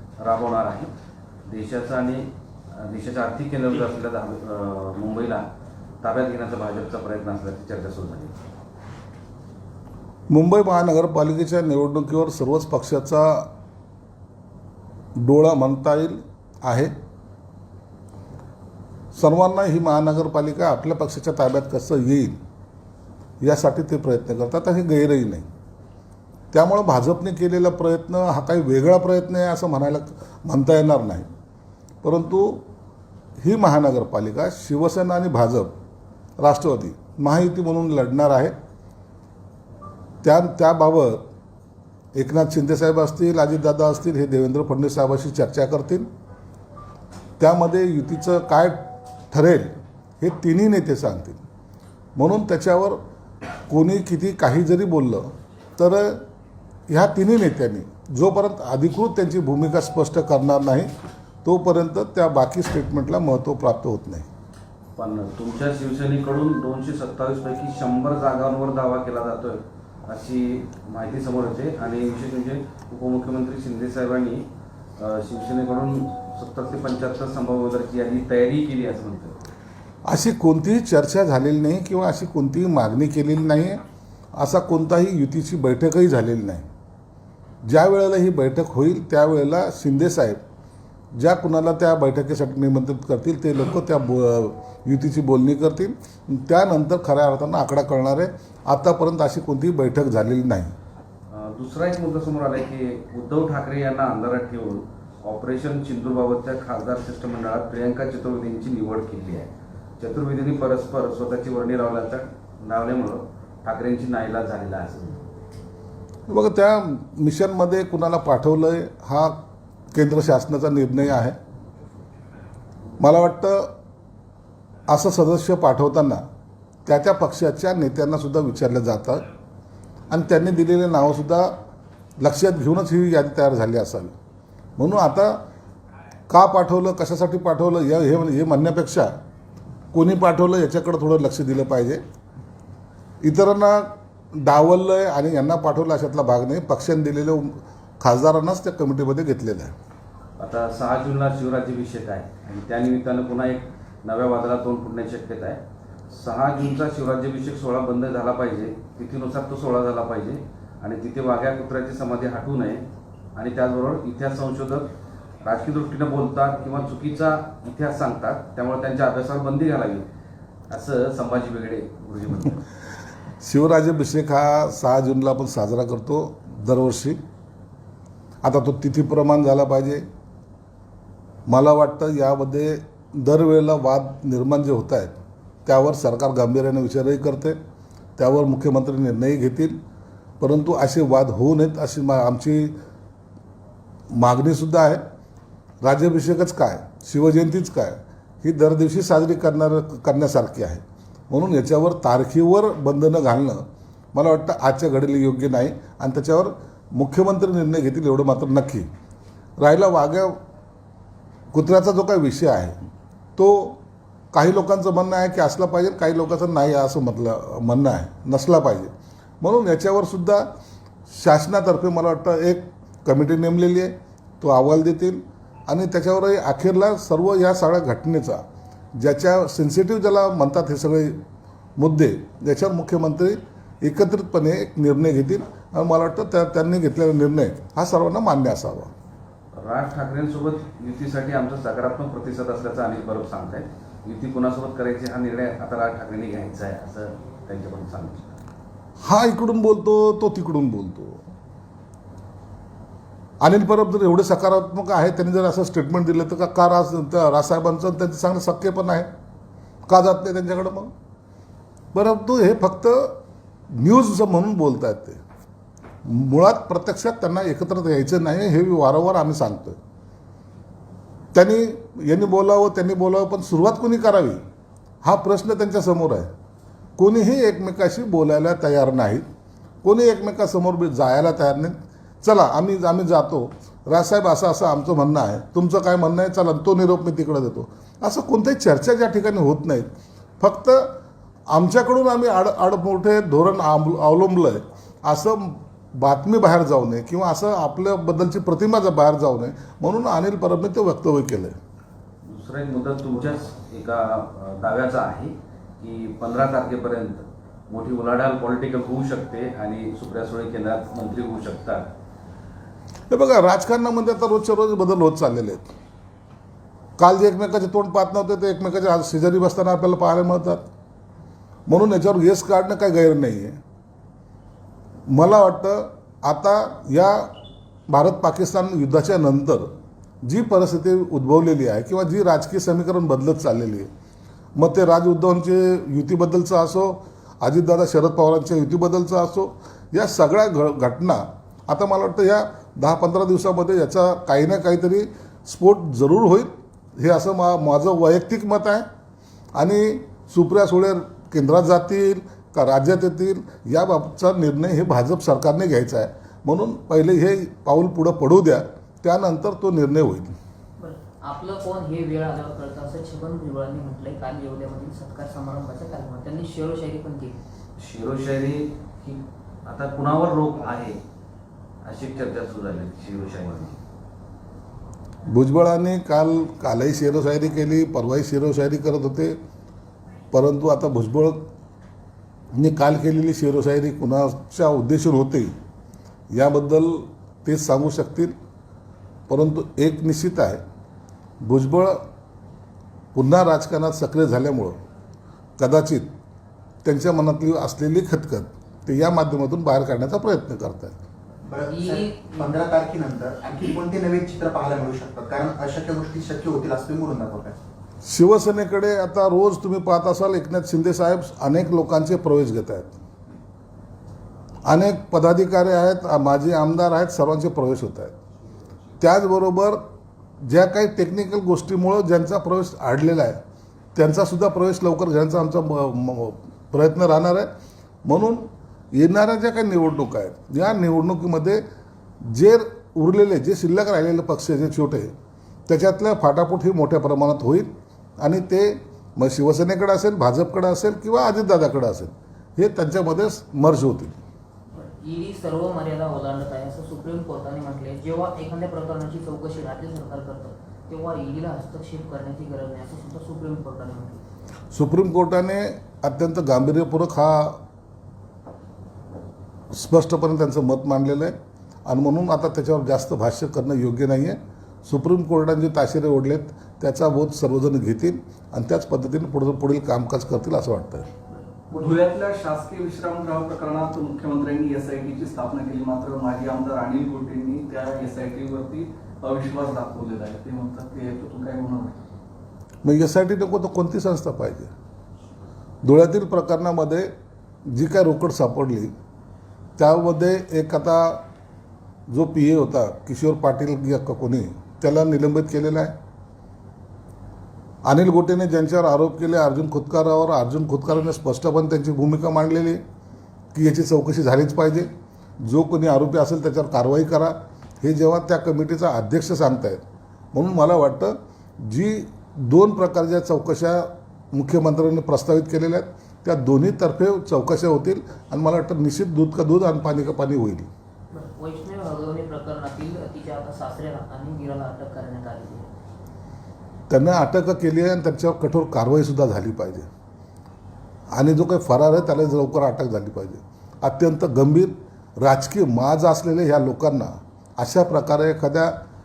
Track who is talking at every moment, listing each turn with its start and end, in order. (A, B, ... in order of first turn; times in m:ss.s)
0:00.2-0:00.9 A
0:01.5-0:02.3 A
0:02.8-0:05.4 A
0:06.0-0:08.3 A
0:10.3-0:13.5 B
0:15.2-0:16.9 B
0:19.1-0:22.4 B
0:23.4-0:25.5 B
0:26.5-0:31.3 B
0:32.0-0:32.6 B
0:33.4-0:35.8 B
0:36.4-0:38.6 B
0:40.2-0:41.3 B
0:42.2-0:46.1 B
0:47.4-0:51.4 B
0:52.2-0:53.0 B
0:53.7-0:56.2 B
0:56.9-1:00.9 B
1:01.4-1:04.3 B
1:05.0-1:14.4 A
1:15.0-1:19.4 A
1:20.0-1:23.8 B
1:24.4-1:26.7 B
1:27.6-1:30.4 B
1:31.1-1:40.7 B
1:41.3-1:55.1 A
1:56.3-1:59.4 B
1:59.9-2:01.4 B
2:03.0-2:03.7 B
2:04.9-2:06.2 B
2:06.9-2:09.2 B
2:10.1-2:11.6 B
2:12.2-2:14.1 B
2:14.8-2:15.4 B
2:16.3-2:19.1 B
2:19.9-2:22.0 B
2:23.2-2:29.7 B
2:30.4-2:42.8 A
2:43.4-2:44.9 A
2:45.4-2:50.1 A
2:50.7-2:52.6 A
2:53.4-2:57.2 B
2:58.4-3:00.1 B
3:01.5-3:07.6 B
3:08.2-3:09.8 B
3:10.4-3:12.8 B
3:14.1-3:15.0 B
3:15.8-3:28.9 B
3:29.6-3:30.4 B
3:31.5-3:32.8 B
3:33.4-3:33.8 B
3:34.3-3:40.5 B
3:41.1-3:48.4 B
3:49.0-3:51.2 B
3:51.8-3:58.9 B
3:59.6-4:08.4 A
4:09.0-4:11.2 B
4:13.4-4:19.1 B
4:19.9-4:20.9 B
4:21.9-4:23.2 B
4:23.7-4:25.2 B
4:26.0-4:29.8 B
4:31.3-4:34.4 B
4:35.0-4:36.3 B
4:37.0-4:39.3 B
4:39.8-4:51.0 B
4:51.5-5:01.6 B
5:02.3-5:11.9 A
5:13.1-5:15.7 B
5:17.0-5:20.7 B
5:21.7-5:23.6 B
5:25.1-5:27.3 B
5:27.9-5:29.7 B
5:30.2-5:33.9 B
5:34.6-5:48.9 B
5:49.6-6:00.4 B
6:00.8-6:07.4 C
6:07.8-6:11.0 A
6:11.8-6:13.7 A
6:15.3-6:19.4 B
6:20.3-6:21.5 B
6:22.5-6:25.5 B
6:26.3-6:28.4 B
6:29.3-6:30.6 B
6:31.4-6:32.0 B
6:33.2-6:34.8 B
6:35.6-6:36.1 B
6:36.8-6:41.0 B
6:41.4-6:47.6 D
6:41.7-6:42.6 C
6:48.0-6:52.9 B
6:54.7-6:58.2 B
6:59.0-6:59.8 B
7:00.4-7:03.4 B
7:04.0-7:07.5 B
7:08.0-7:11.6 B
7:12.2-7:15.1 B
7:15.7-7:17.7 B
7:18.2-7:24.2 B
7:24.7-7:34.2 C
7:34.7-7:37.6 B
7:39.7-7:51.1 B
7:51.7-7:52.0 C
7:51.7-8:02.0 E
8:02.8-8:04.7 B
8:05.8-8:07.1 B
8:07.7-8:08.9 B
8:09.8-8:11.2 B
8:12.1-8:16.0 B
8:17.8-8:22.8 B
8:23.5-8:24.9 B
8:25.4-8:40.7 B
8:41.1-8:45.7 C
8:46.9-8:49.9 B
8:51.1-8:58.8 B